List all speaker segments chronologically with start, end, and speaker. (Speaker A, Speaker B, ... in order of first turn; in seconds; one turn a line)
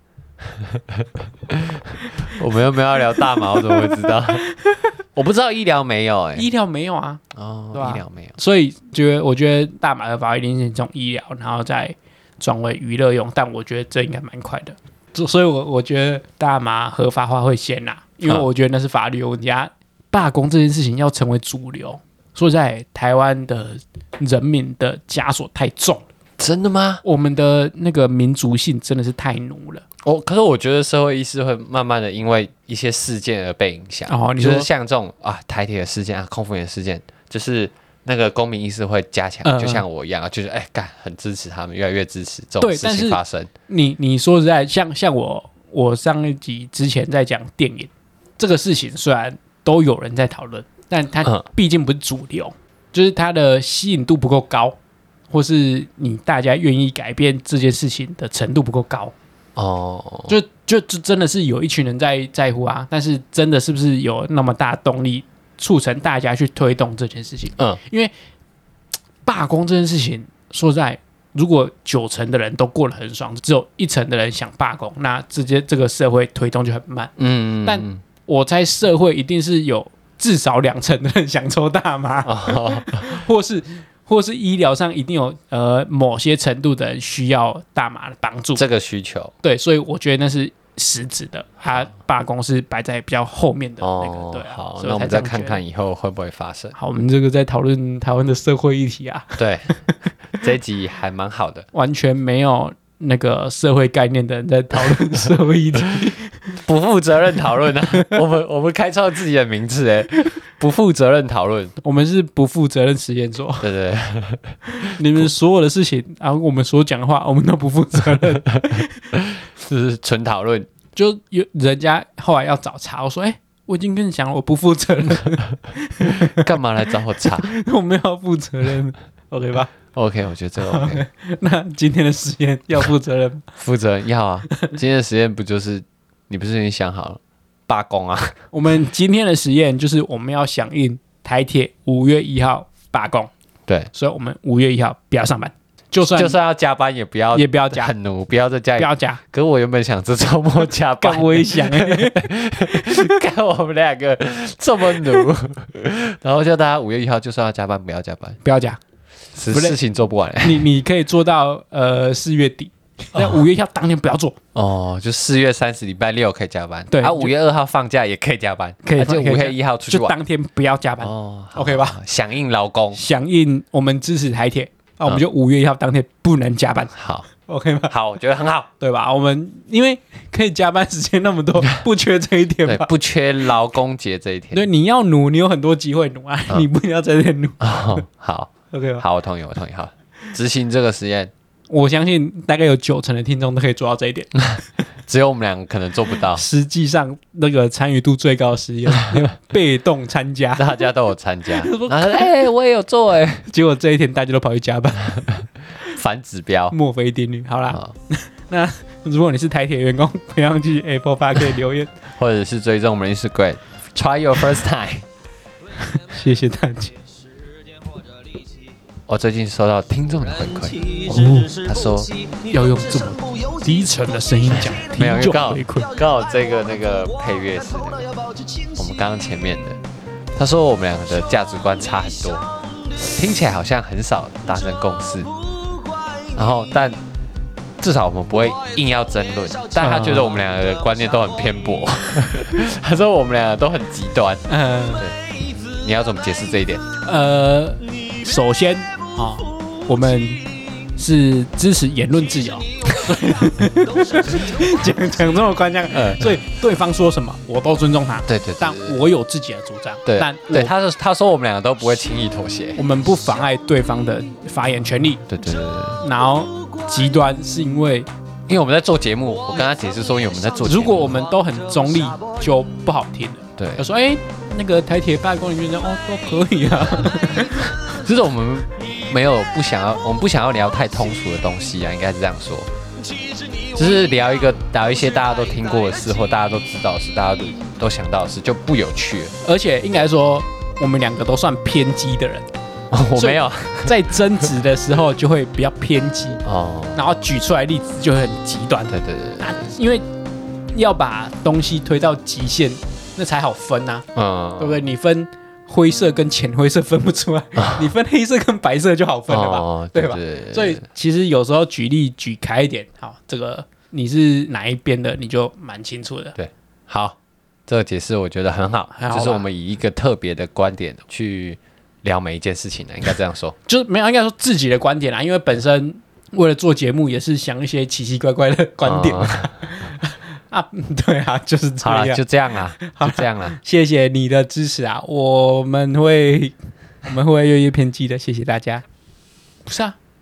Speaker A: 0.6-4.4
Speaker B: 3.4-4.9
Speaker A: 5.1-6.5
Speaker B: 6.3-7.2
Speaker A: 7.3-8.3
Speaker B: 7.7-26.0
Speaker A: 26.4-27.0
Speaker B: 27.0-29.8
Speaker A: 30.0-43.5
Speaker B: 34.1-34.7
Speaker B: 39.4-39.8
Speaker B: 42.6-54.8
Speaker B: 55.3-59.1
Speaker A: 59.5-60.3
Speaker B: 60.3-68.1
Speaker B: 69.2-88.6
Speaker A: 77.2-78.0
Speaker A: 82.2-83.2
Speaker A: 88.5-89.3
Speaker B: 89.4-95.6
Speaker A: 93.8-96.8
Speaker B: 96.8-99.8
Speaker A: 99.4-99.7
Speaker A: 100.3-101.7
Speaker B: 101.7-106.4
Speaker A: 106.5-111.7
Speaker B: 111.8-113.7
Speaker A: 113.6-115.2
Speaker B: 114.7-119.0
Speaker A: 119.1-120.7
Speaker B: 120.9-126.4
Speaker A: 126.2-127.5
Speaker B: 127.4-129.7
Speaker A: 129.9-131.0
Speaker B: 130.6-133.4
Speaker A: 133.6-138.4
Speaker B: 138.5-143.3
Speaker B: 143.9-146.3
Speaker A: 146.0-158.4
Speaker B: 147.3-147.9
Speaker B: 148.8-149.2
Speaker B: 151.0-153.1
Speaker B: 158.4-158.8
Speaker A: 159.3-160.7
Speaker B: 159.5-159.8
Speaker B: 160.4-164.4
Speaker A: 163.1-163.4
Speaker A: 164.5-170.2
Speaker B: 166.9-167.3
Speaker B: 168.8-172.0
Speaker A: 171.0-173.0
Speaker B: 172.9-177.9
Speaker A: 176.9-177.3
Speaker A: 177.9-178.7
Speaker B: 178.8-182.9
Speaker A: 182.6-184.6
Speaker B: 184.5-188.0
Speaker A: 187.6-191.3
Speaker B: 188.7-189.0
Speaker B: 191.7-194.4
Speaker A: 194.5-196.4
Speaker B: 196.3-200.9
Speaker A: 198.9-199.2
Speaker A: 200.6-203.4
Speaker B: 201.5-202.3
Speaker B: 203.5-205.4
Speaker A: 205.9-206.8
Speaker B: 206.7-211.9
Speaker A: 212.1-215.0
Speaker C: 215.7-218.8
Speaker B: 215.8-216.9
Speaker A: 219.1-222.1
Speaker C: 220.1-229.1
Speaker B: 221.1-221.6
Speaker B: 222.5-225.9
Speaker A: 224.9-228.1
Speaker A: 228.8-229.8
Speaker A: 230.4-232.4
Speaker C: 231.2-233.2
Speaker A: 233.1-235.3
Speaker C: 234.5-236.5
Speaker A: 236.3-237.0
Speaker A: 237.8-244.4
Speaker C: 238.4-242.5
Speaker B: 239.8-240.3
Speaker B: 244.5-245.0
Speaker C: 245.0-246.5
Speaker A: 245.7-246.8
Speaker B: 247.0-260.7
Speaker C: 249.2-250.6
Speaker C: 252.3-255.3
Speaker A: 255.9-256.4
Speaker A: 258.3-259.0
Speaker A: 260.0-262.8
Speaker B: 262.8-265.2
Speaker A: 265.3-266.0
Speaker B: 266.0-268.1
Speaker C: 266.6-267.1
Speaker A: 268.5-271.2
Speaker C: 269.5-272.7
Speaker B: 270.6-277.7
Speaker A: 273.6-273.9
Speaker C: 277.2-278.1
Speaker A: 277.7-282.7
Speaker C: 283.0-284.2
Speaker A: 283.7-289.3
Speaker C: 284.9-286.9
Speaker B: 289.4-292.4
Speaker A: 292.9-294.0
Speaker B: 293.1-300.0
Speaker A: 296.4-297.0
Speaker A: 298.9-299.7
Speaker B: 300.7-304.1
Speaker A: 304.1-304.9
Speaker B: 304.6-316.4
Speaker A: 307.6-307.9
Speaker A: 309.3-310.8
Speaker A: 316.4-323.5
Speaker B: 318.9-319.4
Speaker B: 323.7-332.2
Speaker A: 328.8-329.5
Speaker A: 331.8-333.6
Speaker B: 332.8-338.8
Speaker B: 339.6-340.0